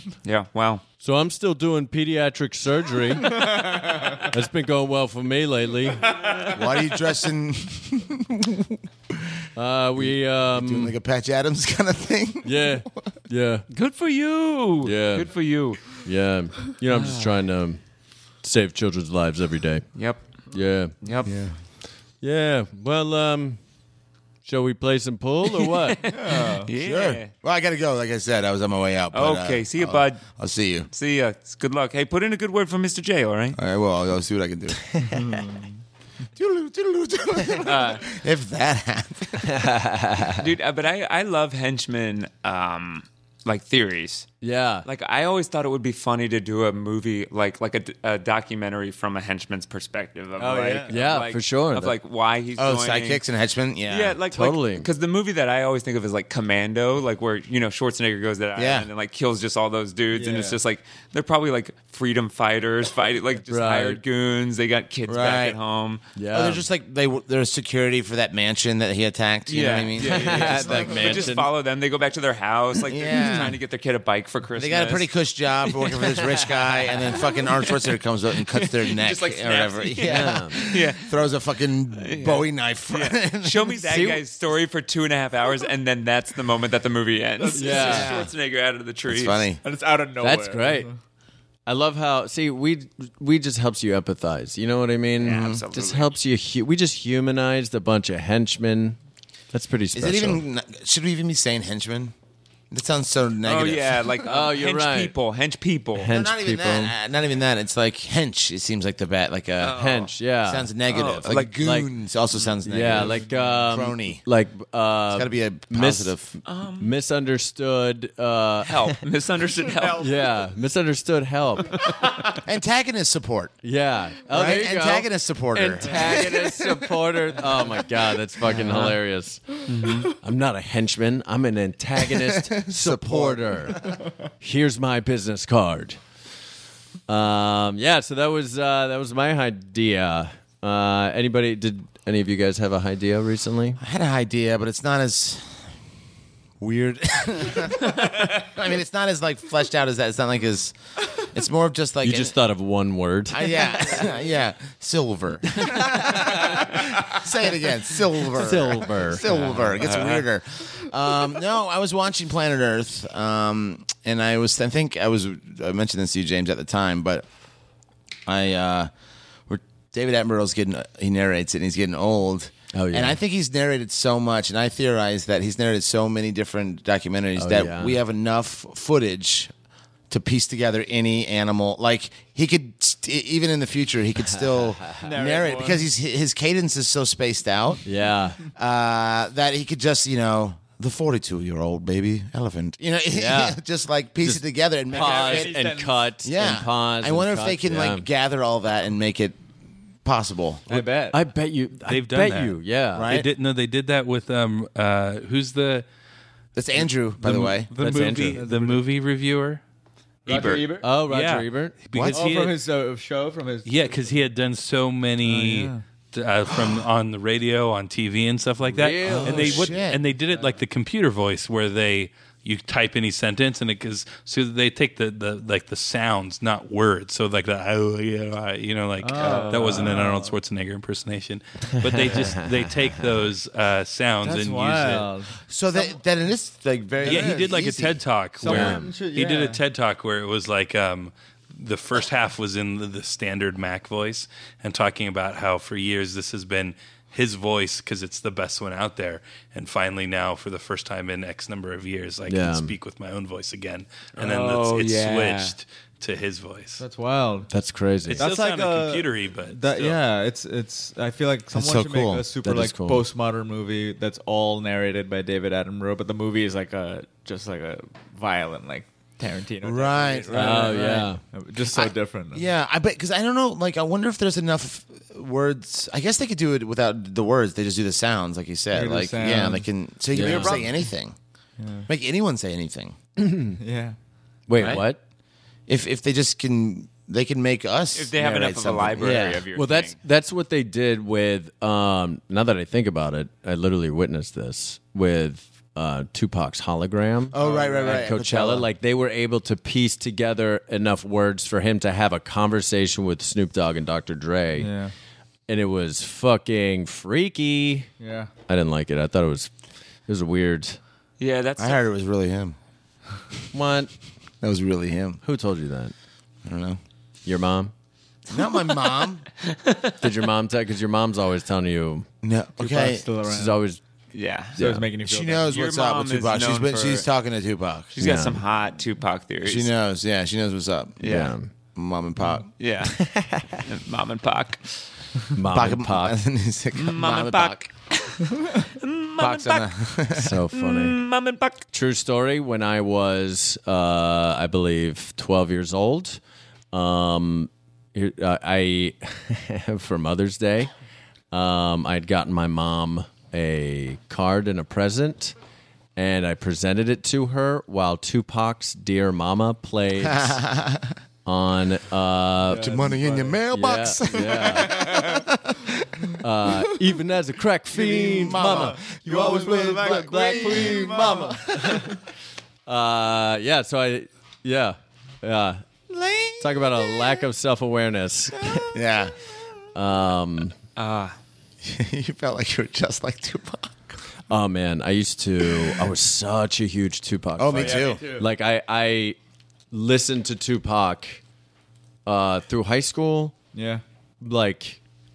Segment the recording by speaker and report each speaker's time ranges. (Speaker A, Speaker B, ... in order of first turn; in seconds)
Speaker A: 0.2-0.8, 13.7-15.8, 16.9-17.3, 19.9-20.2, 21.0-21.3, 25.9-27.3, 29.1-30.2, 30.9-33.6, 37.6-38.0, 40.4-44.3, 44.8-53.2, 53.9-66.0, 69.5-75.1, 75.7-76.3, 77.0-77.7, 78.5-81.2, 82.0-89.4, 95.2-96.1, 103.4-106.1, 109.6-110.1, 110.9-111.6, 116.4-116.9, 118.6-120.1, 121.8-122.3, 129.7-130.1, 159.8-160.2, 210.2-210.6, 229.2-229.8, 254.1-255.5, 287.9-290.0, 311.2-311.8, 319.5-319.9, 324.1-324.6, 325.5-327.1, 327.9-329.7, 331.0-331.3, 332.6-334.6, 336.7-339.7, 340.5-341.6, 380.8-381.1
Speaker B: 1.0-3.6, 4.2-6.1, 9.5-10.9, 12.4-13.6, 14.8-15.3, 15.9-17.8, 18.4-19.9, 20.5-20.9, 22.2-23.6, 24.4-26.0, 39.5-40.4, 44.4-44.9, 50.9-51.9, 54.3-54.9, 63.5-64.0, 66.2-66.6, 70.0-71.5, 80.0-80.6, 83.9-84.2, 87.5-88.2, 90.2-90.9, 91.7-99.0, 99.5-100.4, 104.2-105.1, 106.0-106.9, 109.7-110.7, 111.6-111.9, 112.6-119.0, 120.0-121.7, 123.6-129.4, 130.1-136.0, 137.1-143.8, 152.0-153.9, 155.6-156.6, 158.3-159.8, 172.7-173.2, 177.4-178.0, 184.3-185.0, 187.8-188.4, 193.1-193.6, 194.2-198.1, 200.7-203.1, 207.3-208.4, 210.8-211.8, 218.7-219.7, 231.8-232.5, 238.4-238.9, 252.3-252.7, 257.5-258.3, 262.4-263.0, 270.3-271.2, 280.1-280.6, 283.2-283.6, 284.5-285.0, 289.5-304.7, 305.5-307.9, 308.5-309.5, 310.1-310.8, 313.5-313.9, 315.2-315.9, 317.2-317.7, 320.0-322.1, 323.2-323.8, 324.6-324.9, 328.0-328.4, 331.0-331.5, 333.0-333.6, 335.3-336.2, 340.1-341.0, 341.7-346.2, 346.7-350.7, 351.3-355.3, 355.9-360.4, 361.2-362.7, 363.5-364.8, 366.2-371.0, 371.6-371.9, 372.6-375.6, 376.4-378.7, 379.7-380.5, 384.3-389.2, 389.7-391.2, 392.1-393.4, 394.2-394.8
Speaker C: 3.7-4.0, 26.1-26.7, 35.1-35.7, 50.4-50.9, 60.1-60.6, 87.4-88.2, 89.6-90.9, 119.8-120.1, 185.0-185.8, 194.9-196.0, 200.7-201.2, 208.3-208.9, 210.2-210.9, 212.1-214.3, 215.2-215.8, 219.1-219.6, 220.3-220.6, 229.0-230.4, 234.2-235.9, 237.0-237.6, 238.4-239.6, 256.8-257.5, 258.2-272.4, 278.7-280.9, 281.6-281.9, 283.6-283.9, 297.3-298.1, 304.6-304.9, 308.0-308.3, 322.6-323.6, 324.6-325.5, 362.5-363.4, 364.5-365.2, 367.7-371.9, 387.5-388.3, 393.5-393.8
Speaker D: 6.5-9.2, 10.0-12.9, 21.2-21.6, 26.8-30.9, 33.5-34.9, 36.4-39.6, 52.6-54.2, 58.5-58.9, 65.1-65.6, 66.3-71.2, 72.8-73.6, 74.6-83.8, 87.8-88.3, 89.1-89.6, 95.3-95.6, 99.9-102.1, 102.7-104.2, 106.1-109.8, 110.4-114.2, 115.1-116.3, 122.3-123.5, 124.3-126.5, 132.0-134.0, 143.8-145.5, 146.6-152.3, 153.3-167.2, 168.2-168.9, 169.5-179.5, 180.1-187.8, 188.6-195.5, 196.2-199.4, 200.0-200.6, 202.9-203.3, 206.6-207.7, 211.9-212.2, 219.4-220.0, 235.5-238.0, 261.5-262.2, 269.6-271.0, 271.7-281.1, 281.9-282.9, 285.7-289.4, 297.3-298.7, 311.6-312.6, 314.4-315.2, 316.4-316.8, 318.3-319.2, 322.2-323.0, 325.0-327.9, 329.4-331.0, 331.7-332.5, 335.5-337.7, 339.2-340.4, 360.0-360.9, 362.5-365.9, 367.7-371.9, 375.9-376.8, 378.6-379.1, 381.6-384.0, 387.4-388.0
Speaker E: 201.8-205.8, 207.3-209.6, 211.0-212.6, 213.6-235.1, 237.0-256.8, 258.1-260.0